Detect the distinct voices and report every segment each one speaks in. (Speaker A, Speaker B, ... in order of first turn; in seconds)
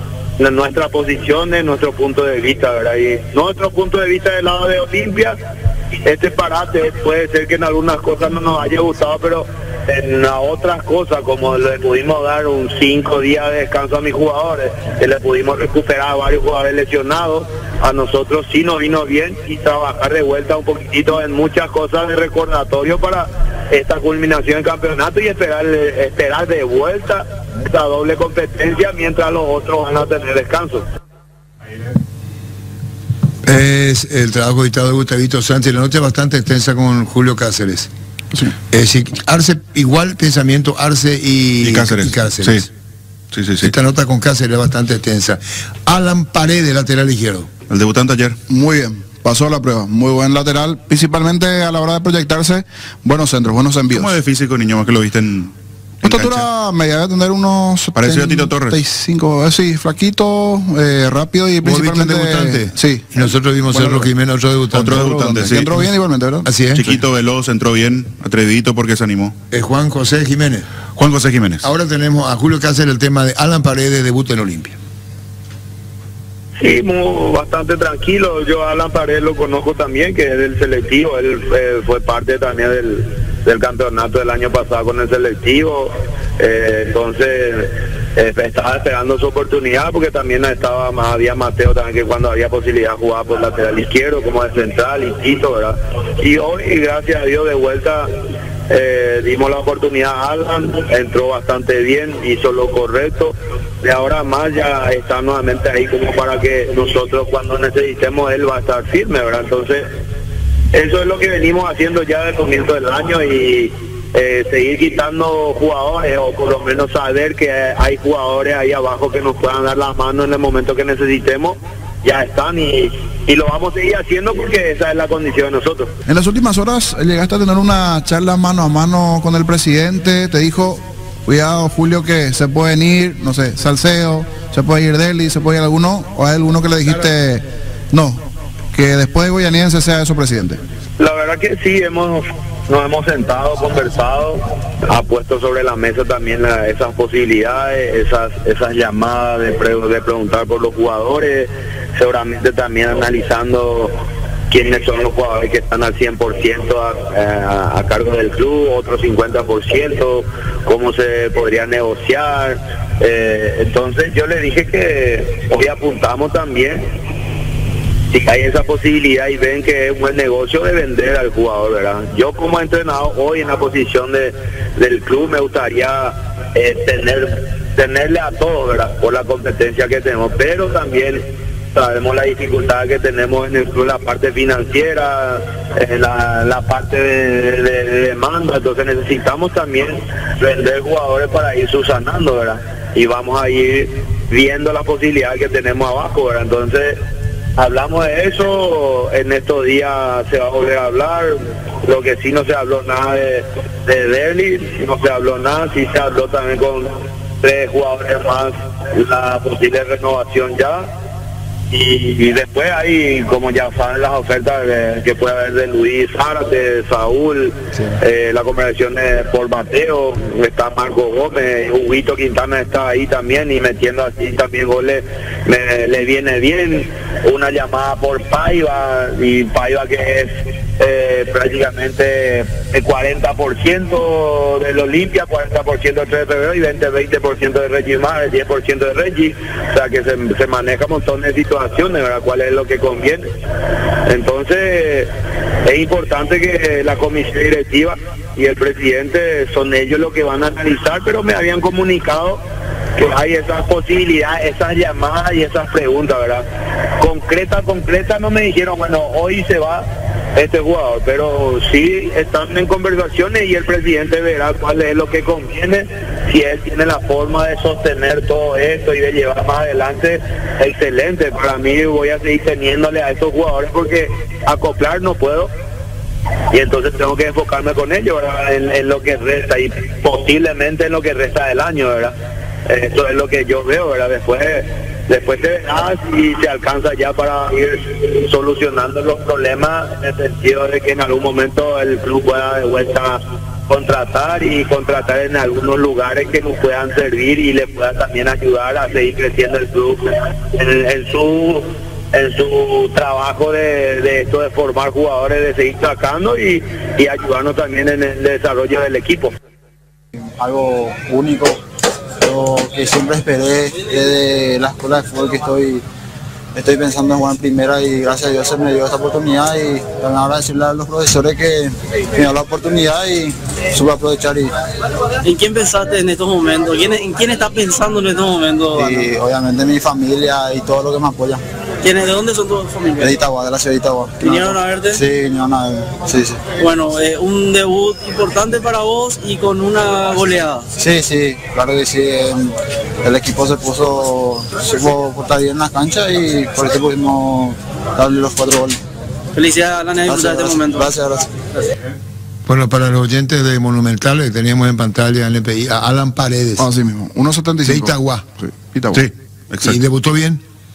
Speaker A: 0.4-5.4, 6.0-30.9, 76.6-98.1, 98.7-109.9, 110.7-125.9, 141.0-154.0, 154.5-166.8, 168.1-197.0, 197.6-210.9, 211.7-243.3, 244.1-245.1, 245.7-252.4, 253.0-256.4, 257.0-275.5, 276.5-282.1, 282.7-309.3
Speaker B: 33.5-37.9, 38.7-42.7, 43.6-47.5, 61.6-65.2, 66.5-67.0, 69.5-70.7, 71.6-74.8, 352.5-356.7, 357.6-358.2, 359.6-360.4
Speaker C: 41.6-42.6, 43.3-43.7, 47.7-48.4, 53.9-56.5, 58.0-58.8, 64.7-65.9, 66.7-69.3, 71.0-71.7, 358.9-359.8
Speaker D: 48.5-54.2, 56.0-63.0, 63.7-64.1, 64.8-66.5, 126.1-138.2, 138.7-140.6, 356.6-359.1
Speaker E: 310.3-311.6, 312.2-315.8, 316.6-324.5, 328.8-331.4, 333.0-336.4, 340.8-348.8, 350.1-351.3
Speaker F: 325.2-329.1, 331.8-333.1, 334.2-335.0, 336.6-340.6, 349.4-350.9